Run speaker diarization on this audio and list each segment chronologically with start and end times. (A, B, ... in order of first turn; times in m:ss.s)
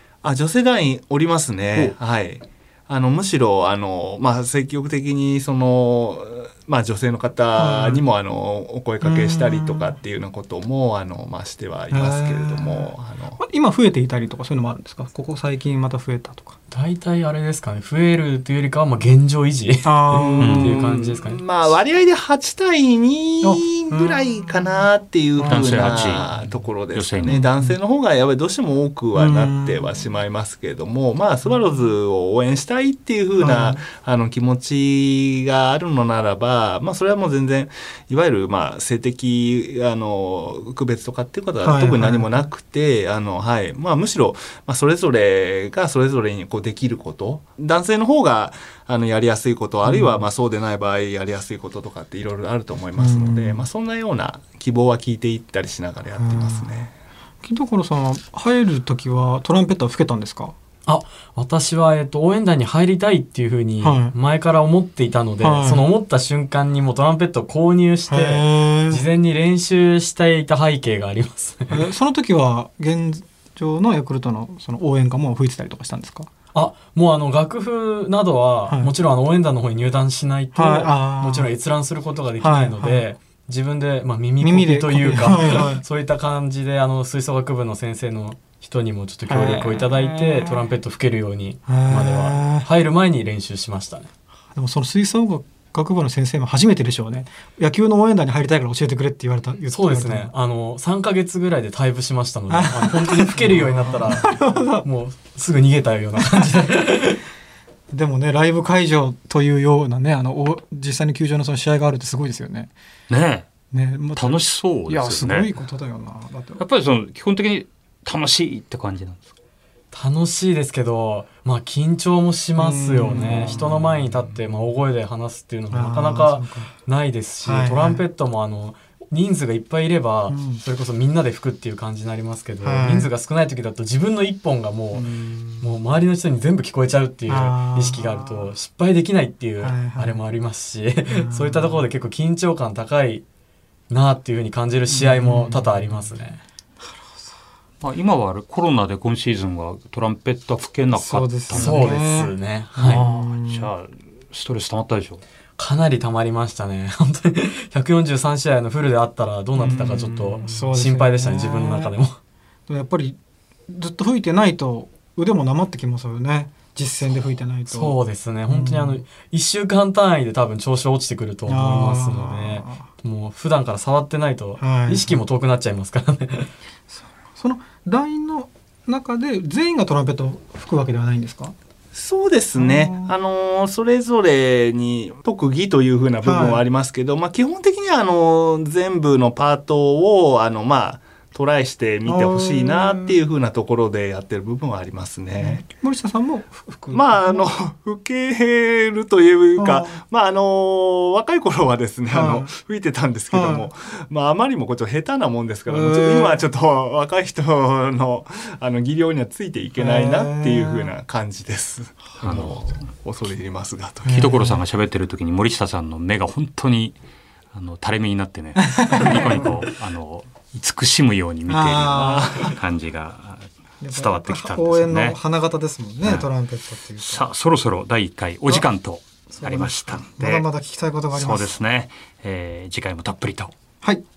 0:00.2-0:13.4 A
0:07.6-0:08.0 B
0:09.0-0:10.0 B
0:11.9-0:16.6 B
0:16.7-0:21.4 C
0:19.8-0:20.7 B
0:20.3-0:56.9 A
0:20.4-0:20.8 D
0:23.4-0:26.5 B
0:25.4-0:26.3 D
0:26.9-0:27.3 D
0:27.3-0:27.8 B
0:29.1-0:30.0 B
0:33.4-0:33.8 B
0:41.6-0:42.4 B
0:49.8-0:50.2 B
0:52.9-0:53.7 B
0:56.2-0:56.7 B
0:57.4-1:00.5 B
1:00.8-1:11.8 C
1:03.8-1:04.1 B
1:05.4-1:05.9 B
1:08.1-1:09.1 B
1:11.7-1:16.3 B
1:16.5-1:34.1 C
1:18.7-1:18.9 B
1:20.5-1:21.5 B
1:22.4-1:23.0 B
1:24.4-1:25.8 B
1:29.3-1:30.7 B
1:31.7-1:32.7 B
1:34.5-1:40.3 B
1:39.7-1:47.2 C
1:42.5-1:44.9 B
1:46.2-1:46.6 B
1:47.9-1:52.7 B
1:53.1-1:53.5 D
1:53.7-1:56.6 B
1:54.1-1:55.5 D
1:56.6-1:59.3 D
1:59.9-2:15.1 C
2:02.6-2:04.0 B
2:05.7-2:06.8 B
2:07.4-2:08.0 B
2:10.3-2:10.6 B
2:12.6-2:13.1 B
2:14.9-2:15.8 B
2:15.6-2:23.2 C
2:17.3-2:18.5 B
2:19.6-2:20.2 B
2:21.1-2:21.9 B
2:23.9-2:26.4 C
2:24.9-2:26.2 B
2:27.0-2:27.3 B
2:27.8-2:31.9 D
2:31.0-2:33.7 B
2:31.5-2:33.1 C
2:32.8-2:35.2 D
2:35.6-2:42.2 C
2:39.5-2:42.0 B
2:42.7-2:49.0 B
2:47.7-2:56.5 C
2:51.4-2:52.9 B
2:54.6-2:55.2 B
2:56.9-3:01.5 B
3:01.9-3:15.6 A
3:02.5-3:03.1 B
3:06.2-3:06.6 B
3:12.1-3:13.2 B
3:15.4-3:17.5 B
3:16.9-3:34.3 A
3:19.6-3:20.0 B
3:22.1-3:22.5 B
3:23.3-3:23.7 B
3:25.7-3:26.4 B
3:29.8-3:30.9 B
3:32.2-3:32.6 D
3:34.0-3:34.6 B
3:34.1-3:37.0 D
3:37.5-3:45.2 D
3:38.6-3:39.6 B
3:39.0-3:39.5 A
3:41.5-3:42.5 B
3:41.9-3:42.5 A
3:43.8-3:47.3 B
3:46.0-3:46.3 D
3:47.0-3:50.4 D
3:49.3-3:51.6 B
3:51.1-3:53.5 D